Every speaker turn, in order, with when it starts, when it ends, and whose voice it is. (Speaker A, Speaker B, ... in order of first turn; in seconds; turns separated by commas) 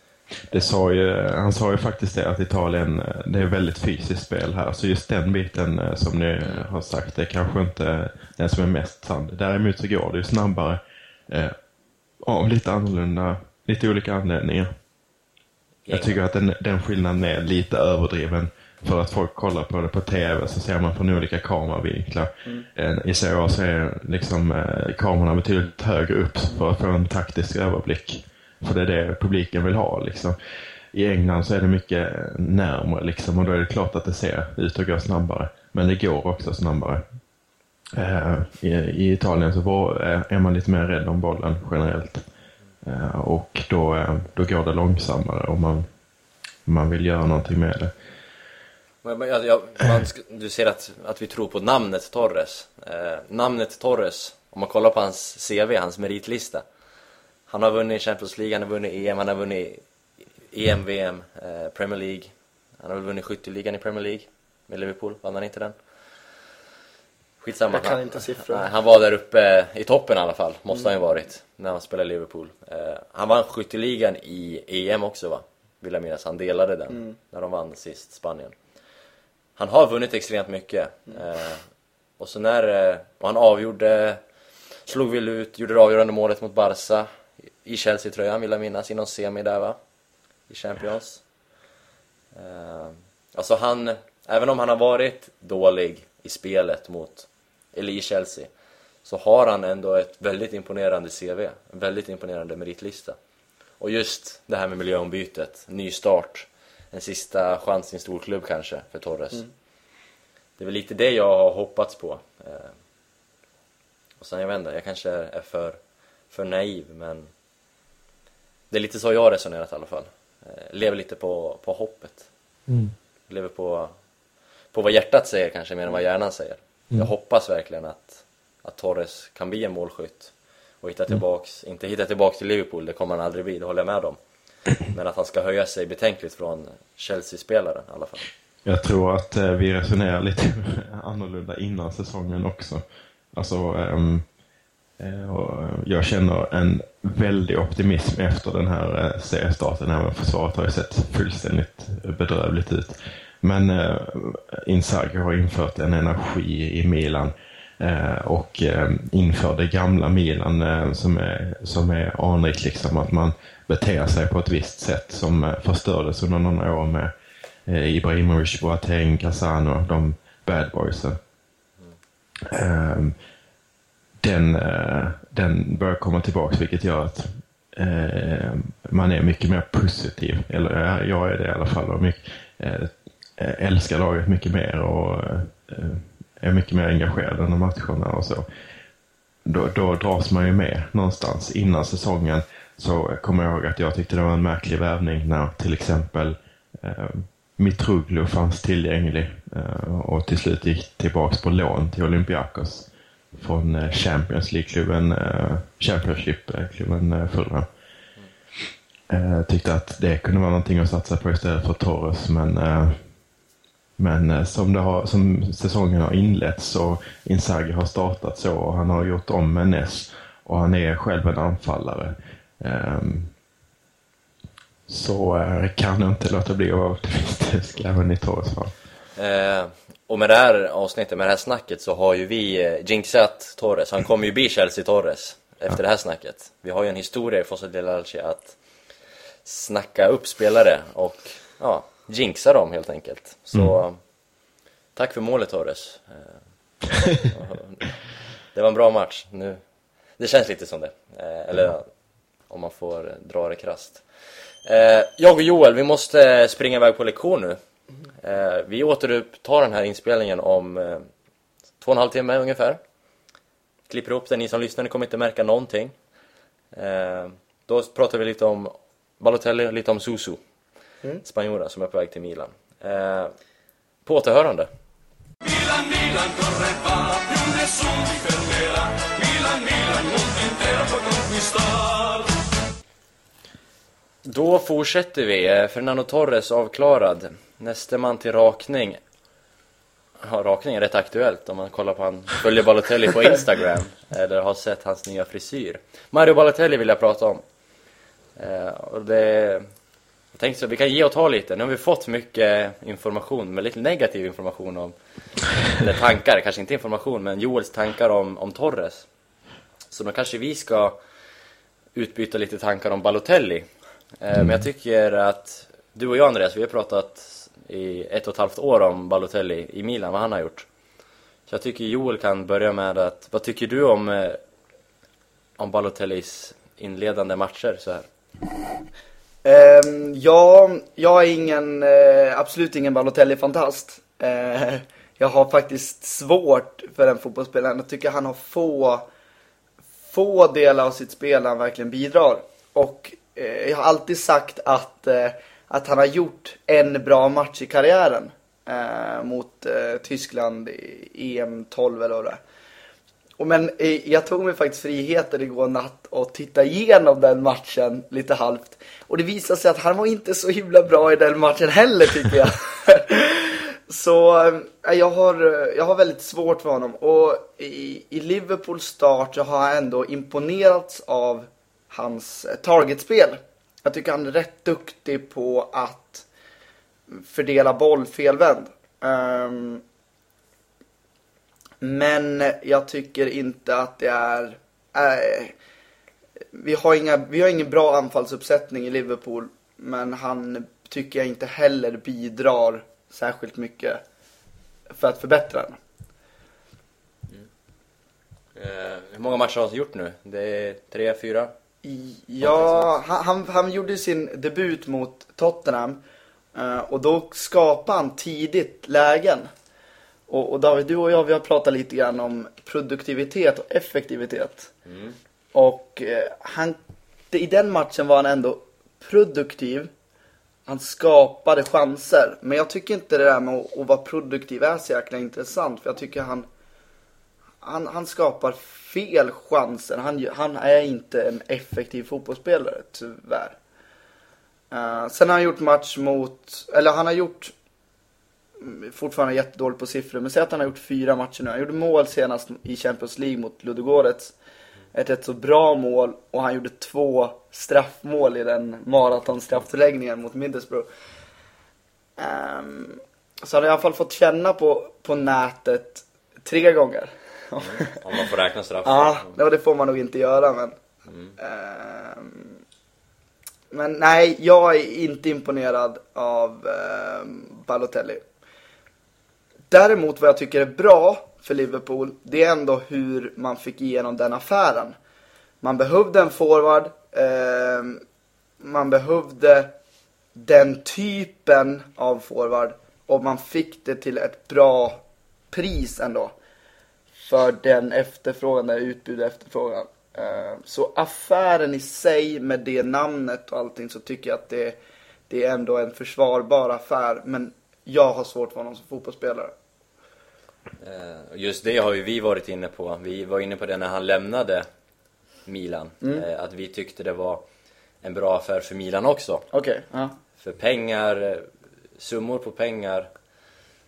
Speaker A: 0.5-11.6, Speaker A: 12.2-14.7, Speaker B: 15.9-16.2, Speaker A: 15.9-30.4, Speaker A: 30.9-37.0, Speaker A: 37.9-42.2, Speaker A: 42.8-45.9, Speaker A: 46.6-47.9, Speaker B: 49.0-56.6, Speaker B: 57.5-59.8, Speaker B: 60.5-65.7, Speaker B: 67.4-78.5, Speaker C: 67.7-68.7, Speaker C: 76.9-77.2, Speaker B: 79.6-81.6, Speaker B: 82.2-84.2, Speaker B: 84.9-87.1, Speaker B: 87.6-89.8, Speaker B: 90.5-91.2, Speaker B: 92.3-98.5, Speaker B: 99.0-103.2, Speaker B: 103.8-109.5, Speaker B: 110.6-112.7, Speaker B: 114.2-115.8, Speaker B: 116.3-117.3, Speaker B: 118.7-122.3, Speaker A: 122.7-122.9, Speaker B: 123.3-124.0, Speaker B: 124.7-134.2, Speaker B: 134.8-138.2, Speaker A: 138.7-144.2, Speaker A: 145.0-167.1, Speaker A: 167.7-171.2, Speaker A: 172.5-173.2, Speaker A: 174.2-188.4, Speaker A: 189.4-207.7, Speaker A: 209.1-213.0, Speaker A: 214.0-223.3, Speaker A: 224.9-228.7, Speaker B: 229.2-238.6, Speaker B: 239.4-244.0, Speaker B: 244.9-246.4, Speaker B: 247.2-249.6, Speaker B: 250.2-251.9, Speaker B: 252.5-254.0, Speaker B: 254.6-257.6, Speaker B: 258.2-261.1, Speaker B: 261.8-262.8, Speaker B: 263.9-265.9, Speaker B: 266.7-270.4, Speaker B: 271.2-273.4, Speaker B: 274.1-274.7, Speaker D: 275.4-282.4, Speaker B: 284.2-289.0, Speaker B: 290.2-297.4, Speaker B: 298.4-299.7, Speaker B: 300.3-304.9, Speaker B: 305.6-309.1, Speaker B: 309.9-311.0, Speaker B: 311.9-313.7, Speaker B: 314.2-320.7, Speaker B: 321.5-324.4, Speaker B: 325.6-328.1, Speaker C: 329.4-339.1, Speaker C: 340.1-352.4, Speaker C: 353.4-376.2, Speaker C: 377.1-379.8, Speaker C: 381.8-385.6, Speaker C: 386.5-394.0, Speaker C: 394.9-395.8, Speaker B: 398.6-401.5, Speaker C: 401.8-406.0, Speaker B: 402.4-402.9, Speaker C: 406.6-409.5, Speaker C: 410.3-414.7, Speaker B: 414.9-415.2, Speaker C: 415.5-416.8, Speaker C: 417.3-419.9, Speaker C: 420.7-426.5, Speaker C: 427.6-433.6, Speaker C: 434.7-437.5, Speaker C: 438.6-444.4, Speaker C: 444.9-450.9, Speaker C: 452.2-457.9, Speaker B: 457.6-459.4, Speaker C: 458.9-460.8, Speaker B: 461.1-461.4, Speaker C: 461.4-462.6, Speaker C: 463.7-468.2, Speaker C: 469.7-475.0, Speaker C: 475.6-478.0, Speaker C: 478.6-479.7, Speaker C: 480.4-485.0, Speaker C: 485.5-486.3, Speaker C: 487.3-494.8, Speaker C: 495.3-499.5, Speaker B: 500.8-504.7, Speaker B: 505.5-507.4, Speaker B: 508.0-509.5, Speaker C: 509.5-510.1, Speaker B: 510.4-513.1